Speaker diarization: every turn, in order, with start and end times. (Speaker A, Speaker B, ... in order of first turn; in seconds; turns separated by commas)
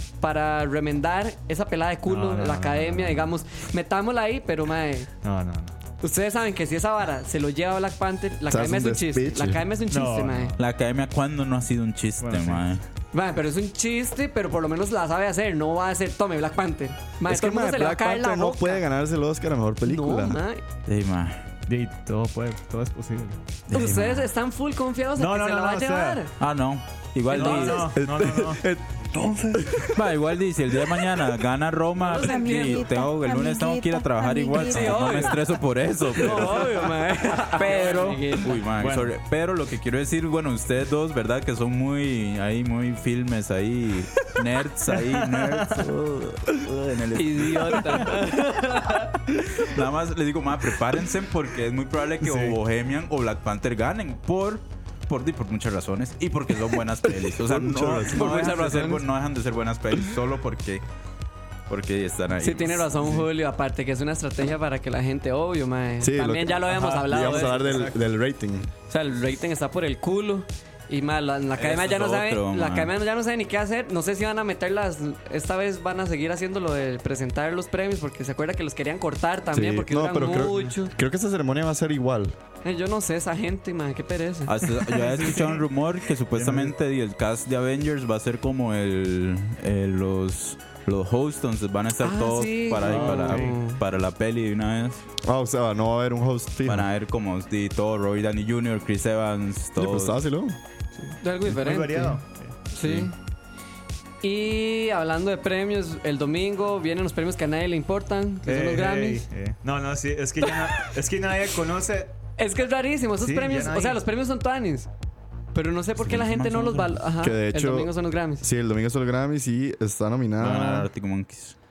Speaker A: 0.2-5.1, Speaker B: 2.0-3.3, Speaker B: 5.2-5.8, Speaker A: 6.0-10.6, Speaker C: 8.5-9.6, Speaker B: 9.9-10.6, Speaker D: 10.6-12.8, Speaker B: 12.2-12.7, Speaker A: 13.1-18.8, Speaker C: 17.2-20.4, Speaker A: 19.8-20.6, Speaker D: 20.9-21.4, Speaker B: 21.7-23.4, Speaker D: 23.7-24.3, Speaker A: 23.7-26.3, Speaker B: 25.1-26.2, Speaker D: 26.4-27.9, Speaker B: 27.3-28.6, Speaker A: 27.3-27.8, Speaker C: 27.9-30.0, Speaker B: 29.1-29.9, Speaker D: 29.9-48.2, Speaker A: 32.0-33.0, Speaker A: 34.6-35.4, Speaker A: 36.1-38.6, Speaker B: 38.8-39.1, Speaker B: 45.0-45.9, Speaker A: 47.1-49.1, Speaker D: 49.4-60.8, Speaker B: 52.2-52.6, Speaker C: 57.2-58.2, Speaker A: 58.1-59.0, Speaker B: 58.2-58.6, Speaker D: 61.7-62.9, Speaker A: 62.4-67.9, Speaker B: 63.0-63.3, Speaker C: 66.0-68.7, Speaker B: 66.7-67.9, Speaker A: 68.9-80.9, Speaker D: 71.5-72.9, Speaker C: 79.5-82.3, Speaker A: 82.6-85.0, Speaker D: 84.5-95.0, Speaker B: 86.3-86.7, Speaker A: 92.0-93.8, Speaker B: 92.8-93.6, Speaker C: 95.2-96.9, Speaker D: 96.7-100.2, Speaker C: 99.8-100.6, Speaker B: 101.0-102.5, Speaker A: 101.2-102.2, Speaker A: 102.7-103.1, Speaker D: 102.8-103.1, Speaker A: 104.2-109.2, Speaker B: 108.4-112.1, Speaker A: 110.5-110.9, Speaker A: 112.4-114.9, Speaker B: 113.2-114.0, Speaker A: 115.5-118.5, Speaker D: 116.0-117.0, Speaker C: 117.2-120.9, Speaker D: 120.4-121.5